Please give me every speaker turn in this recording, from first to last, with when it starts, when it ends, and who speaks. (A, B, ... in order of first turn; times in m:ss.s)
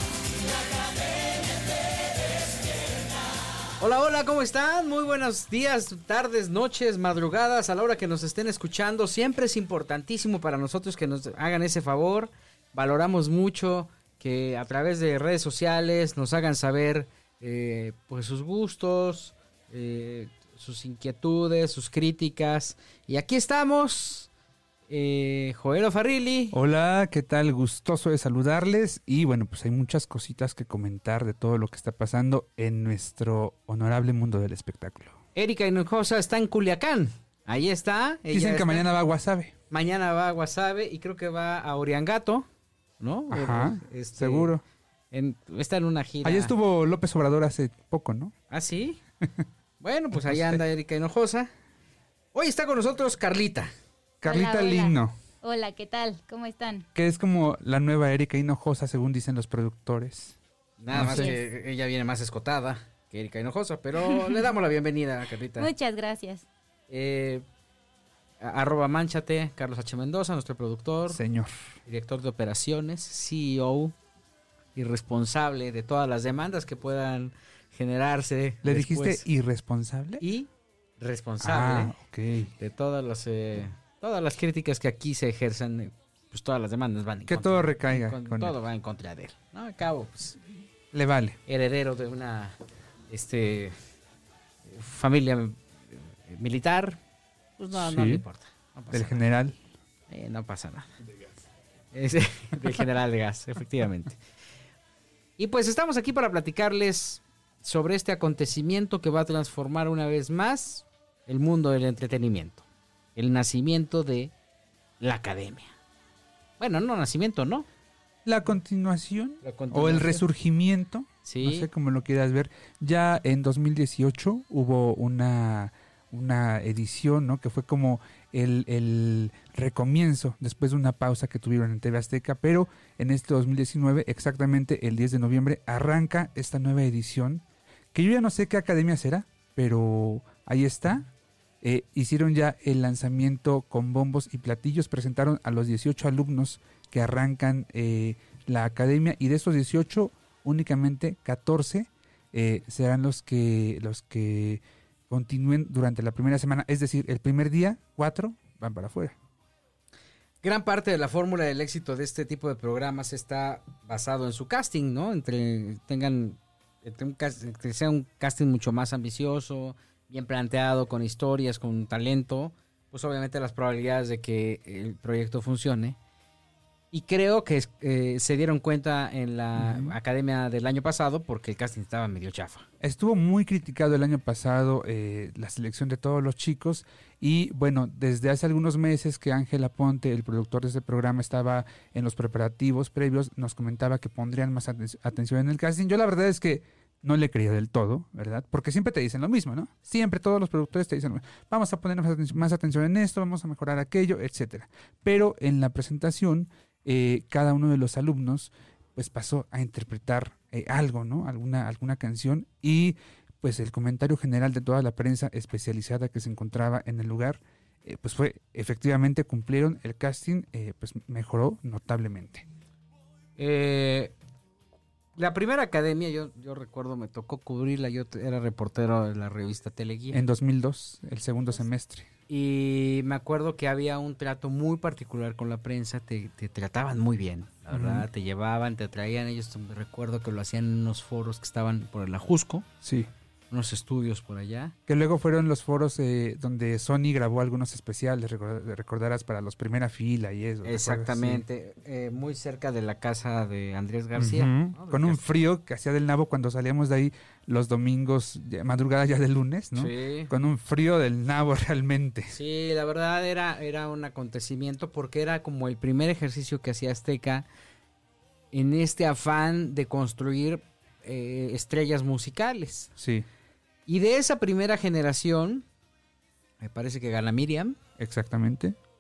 0:03.8-0:24.3 A
0:24.9-0:26.6 A
0:26.5-0:35.2 B
0:35.4-0:38.9 A
0:38.3-0:39.5 B
0:39.7-0:42.5 A
0:43.0-0:44.6 A
0:43.3-0:44.6 B
0:45.1-0:46.6 A
0:46.2-0:48.3 B
0:48.5-0:49.0 A
0:49.8-0:51.5 A
0:50.2-0:50.6 B
0:52.3-0:53.7 A
0:54.2-0:55.2 B
0:54.2-0:56.9 C
0:57.0-1:00.4 B
1:00.8-1:05.7 A
1:00.9-1:01.4 B
1:01.0-1:01.3 C
1:05.6-1:06.4 C
1:06.9-1:07.4 A
1:08.4-1:11.2 A
1:11.1-1:11.5 B
1:11.9-1:14.0 A
1:14.8-1:19.3 A
1:18.6-1:20.2 B
1:20.2-1:20.5 A
1:21.0-1:22.0 A
1:21.4-1:22.5 B
1:22.6-1:30.4 A
1:27.3-1:28.6 B
1:30.9-1:31.4 B
1:31.5-1:32.6 A
1:33.1-1:33.8 A
1:34.7-1:35.6 A
1:36.3-1:37.0 A
1:37.6-1:39.3 A
1:37.7-1:38.2 B
1:38.9-1:39.6 B
1:40.1-1:40.9 A
1:41.9-1:44.2 A
1:45.4-1:52.6 A
1:53.2-1:54.3 A
1:55.0-1:55.8 A
1:56.6-1:57.7 A
1:58.2-2:21.1 B
1:59.4-2:00.2 A
2:01.2-2:01.7 A
2:21.6-2:39.2 B
2:40.4-2:56.0 A
2:56.9-3:02.7 A
2:59.6-3:00.0 B
3:02.8-3:42.5 B
3:43.4-3:44.2 A
3:45.2-3:50.2 A
3:50.1-3:52.1 B
3:52.3-4:02.7 A
3:57.7-3:58.1 B
4:02.8-4:03.1 B
4:03.5-4:04.8 A
4:04.9-4:11.4 B
4:10.6-4:15.4 A
4:14.2-4:22.4 B
4:19.8-4:20.3 A
4:22.3-4:27.5 A
4:28.5-4:32.9 A
4:33.0-4:33.3 B
4:33.9-4:35.7 A
4:36.6-4:37.8 A
4:38.0-4:38.8 B